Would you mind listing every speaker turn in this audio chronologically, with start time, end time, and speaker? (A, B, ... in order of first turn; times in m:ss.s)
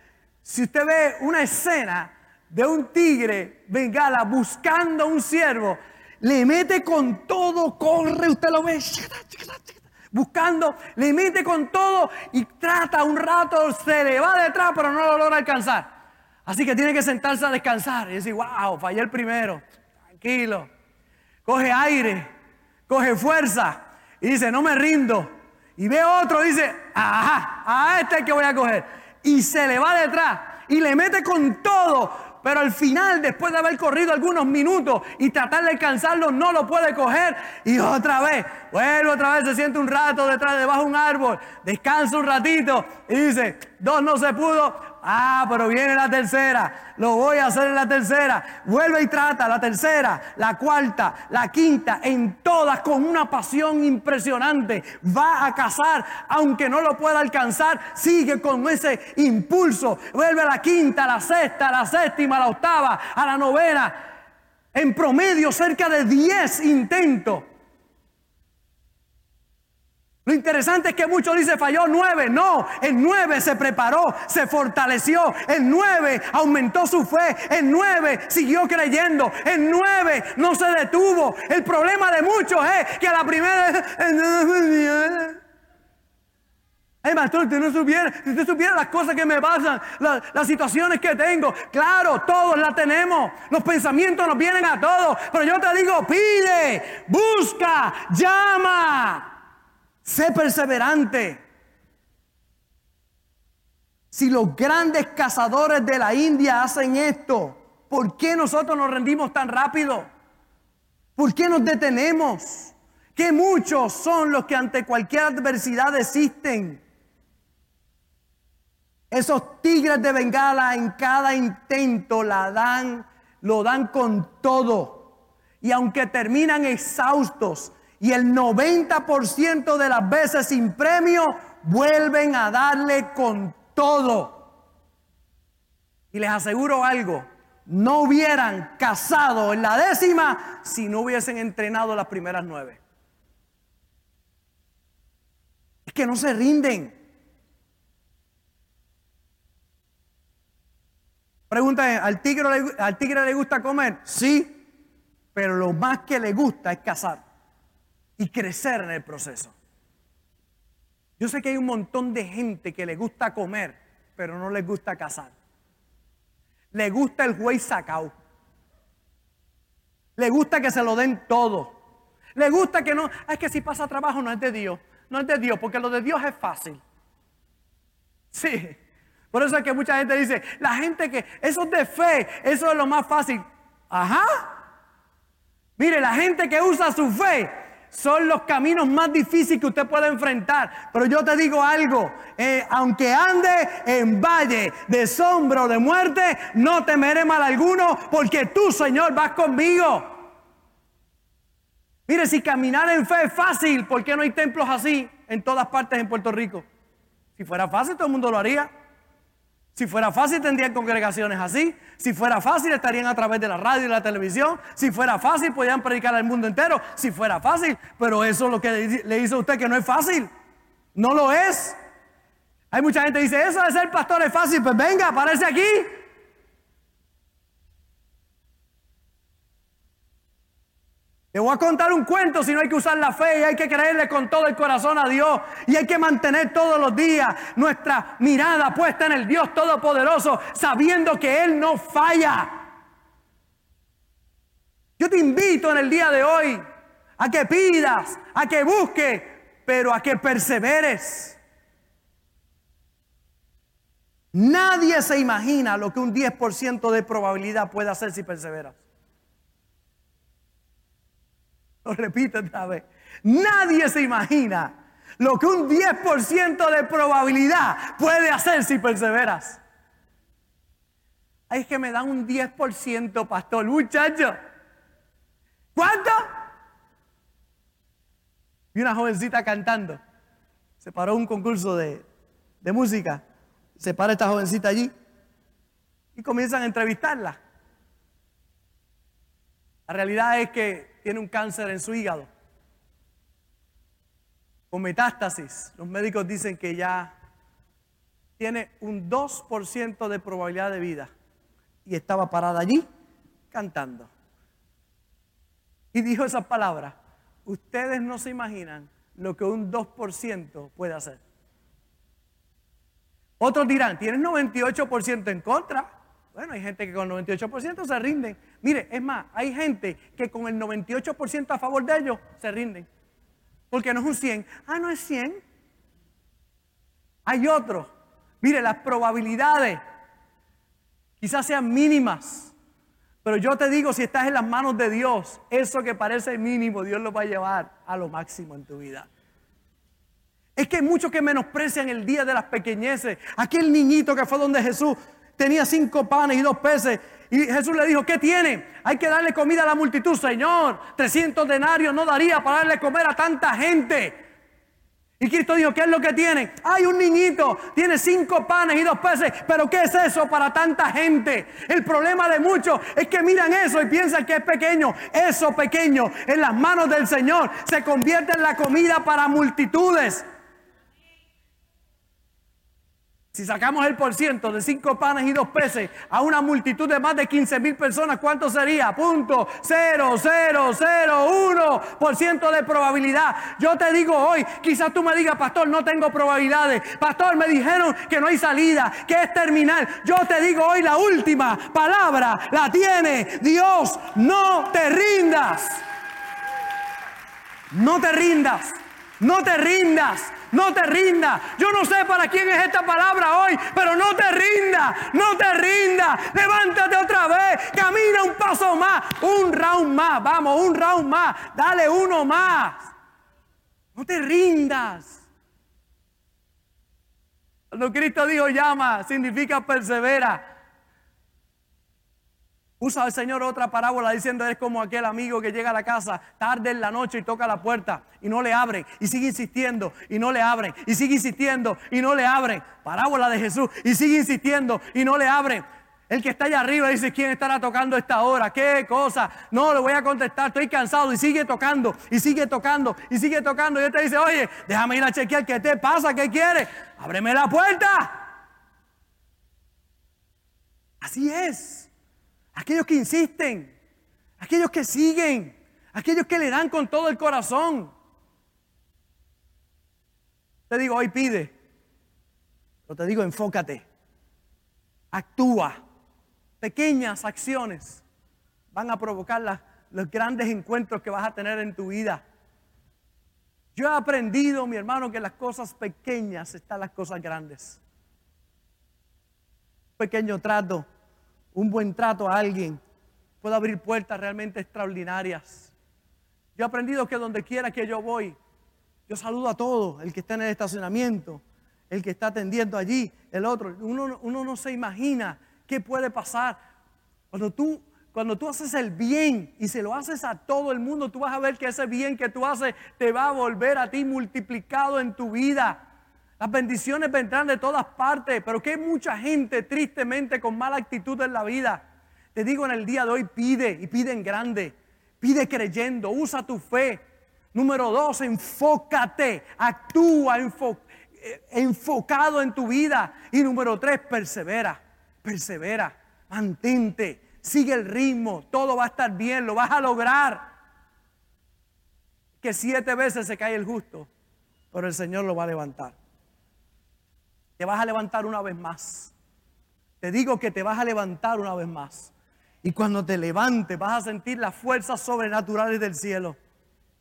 0:00.4-0:15.8 A
0:16.5-0:19.6 A
0:20.2-0:20.7 A
0:21.4-0:22.3 A
0:22.9-1:04.0 A
1:04.7-1:07.4 A
1:10.2-1:25.4 A
1:27.0-1:39.3 A
1:40.0-1:41.4 A
1:44.1-1:50.1 A
1:51.2-1:56.8 A
1:59.1-2:05.1 A
2:05.6-2:14.5 A
2:16.1-2:22.8 A
2:25.8-2:26.9 A
2:31.5-2:34.6 A
2:35.3-2:37.2 A
2:38.2-2:39.5 A
2:41.2-2:45.3 A
2:46.7-2:48.1 A
2:50.2-2:51.7 A
2:52.4-2:56.8 A
2:58.3-2:58.8 A
2:59.3-3:04.6 A
3:05.8-3:20.2 A
3:22.1-3:26.6 A
3:27.4-3:28.7 A
3:29.7-3:40.3 A
3:40.9-3:41.8 A
3:42.7-3:45.9 A
3:51.3-4:02.6 A
4:05.0-4:06.6 A
4:07.2-4:11.4 A
4:14.3-4:18.8 A
4:21.8-4:29.6 A
4:31.5-4:34.3 A
4:35.7-4:36.3 A
4:38.7-4:40.0 A
4:40.8-4:42.0 A
4:42.6-4:43.2 A
4:43.8-4:44.9 A
4:46.1-4:47.4 A
4:49.9-4:52.3 A
4:54.7-4:57.1 A
4:58.4-5:01.1 A
5:01.8-5:02.8 A
5:03.5-5:04.1 A
5:05.9-5:06.9 A
5:07.4-5:11.2 A
5:13.4-5:22.9 A
5:23.7-5:25.4 A
5:27.2-5:27.9 A
5:28.4-5:29.8 A
5:31.2-5:32.5 A
5:33.2-5:39.1 A
5:40.6-5:54.2 A
5:55.2-6:10.2 A
6:13.3-6:35.8 A
6:37.7-6:52.9 A
6:53.9-6:55.2 A
6:57.7-7:00.4 A
7:02.8-7:28.2 A
7:31.0-7:31.9 A
7:32.5-7:33.7 A
7:34.4-7:37.9 A
7:40.7-7:41.5 A
7:42.9-7:43.8 A
7:45.1-7:45.8 A
7:46.6-7:48.0 A
7:48.7-7:52.2 A
7:53.7-7:57.8 A
8:00.0-8:00.8 A
8:01.5-8:02.8 A
8:03.4-8:05.7 A
8:06.6-8:08.4 A
8:09.1-8:16.6 A
8:17.3-8:25.8 A
8:26.4-8:31.8 A
8:32.3-8:37.0 A
8:37.5-8:50.5 A
8:52.4-8:54.1 A
8:54.7-8:56.0 A
8:57.6-8:59.1 A
9:00.0-9:02.1 A
9:02.6-9:06.4 A